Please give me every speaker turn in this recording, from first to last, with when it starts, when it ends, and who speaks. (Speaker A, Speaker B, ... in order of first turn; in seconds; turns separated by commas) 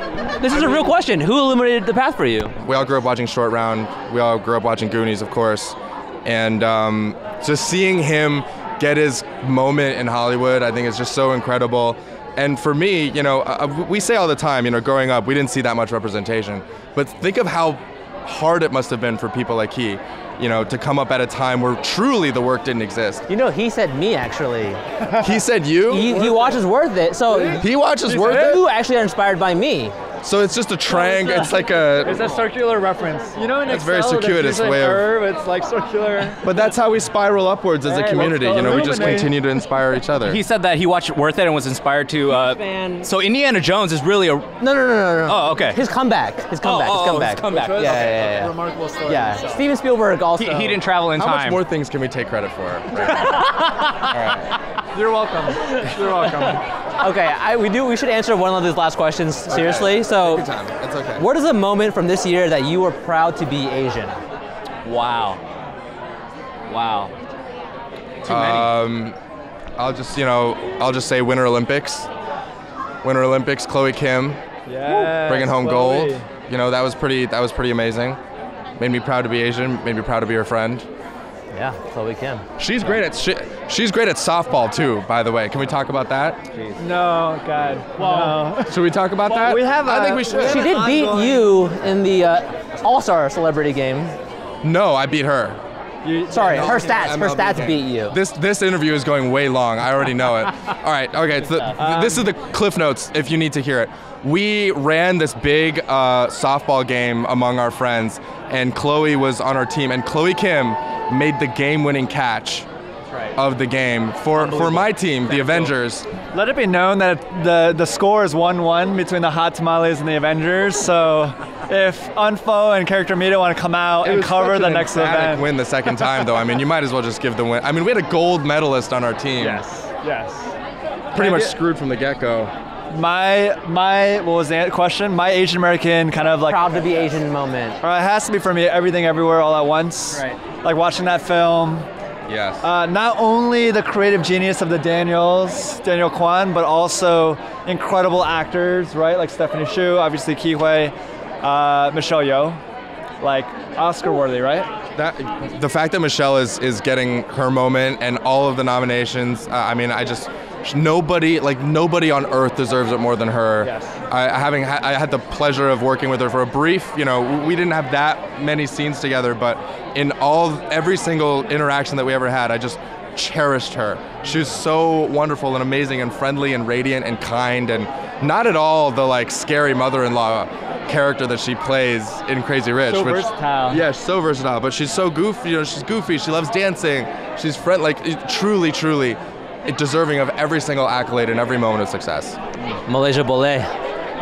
Speaker A: 0.4-2.5, Speaker B: 0.5-0.9, Speaker B: 2.6-23.2, Speaker A: 23.3-24.8, Speaker B: 25.2-26.1, Speaker A: 25.9-27.7, Speaker C: 26.0-26.6, Speaker C: 27.3-28.6, Speaker B: 27.6-28.6, Speaker A: 28.3-29.9, Speaker B: 30.2-32.2, Speaker A: 31.2-31.5, Speaker C: 32.0-36.5, Speaker B: 33.7-35.1, Speaker B: 36.4-40.4, Speaker C: 37.8-39.3, Speaker D: 40.2-44.5, Speaker A: 42.3-43.1, Speaker A: 44.6-48.5, Speaker D: 45.2-45.8, Speaker D: 46.6-48.1, Speaker C: 47.5-49.6, Speaker A: 49.0-50.8, Speaker D: 50.4-51.6, Speaker B: 51.2-53.4, Speaker A: 53.0-54.0, Speaker B: 54.1-54.5, Speaker C: 54.9-56.6, Speaker A: 55.6-60.5, Speaker B: 59.5-61.2, Speaker A: 61.1-64.2, Speaker D: 64.8-65.4, Speaker D: 66.7-67.1, Speaker D: 68.2-68.7, Speaker B: 68.3-69.2, Speaker B: 69.8-72.1, Speaker B: 73.0-74.4, Speaker C: 74.7-76.2, Speaker B: 75.2-78.2, Speaker B: 78.8-80.9, Speaker A: 81.5-82.5, Speaker B: 82.6-86.4, Speaker C: 86.8-91.6, Speaker A: 88.0-88.4, Speaker B: 88.7-90.7, Speaker A: 90.4-94.2, Speaker B: 94.6-95.6, Speaker C: 96.0-97.2, Speaker A: 96.3-98.2, Speaker B: 96.5-112.7, Speaker C: 101.7-102.3, Speaker B: 113.3-116.1, Speaker D: 114.4-115.7, Speaker C: 116.3-125.5, Speaker B: 124.0-129.6, Speaker C: 129.4-130.5, Speaker B: 131.1-132.5, Speaker C: 131.2-131.6, Speaker C: 132.9-137.2, Speaker A: 136.5-137.8, Speaker C: 137.8-141.9, Speaker D: 140.1-140.4, Speaker B: 142.3-142.7, Speaker C: 142.6-152.6, Speaker C: 153.2-154.7, Speaker B: 155.0-192.4, Speaker C: 163.6-164.0, Speaker C: 182.8-183.8, Speaker A: 192.8-193.7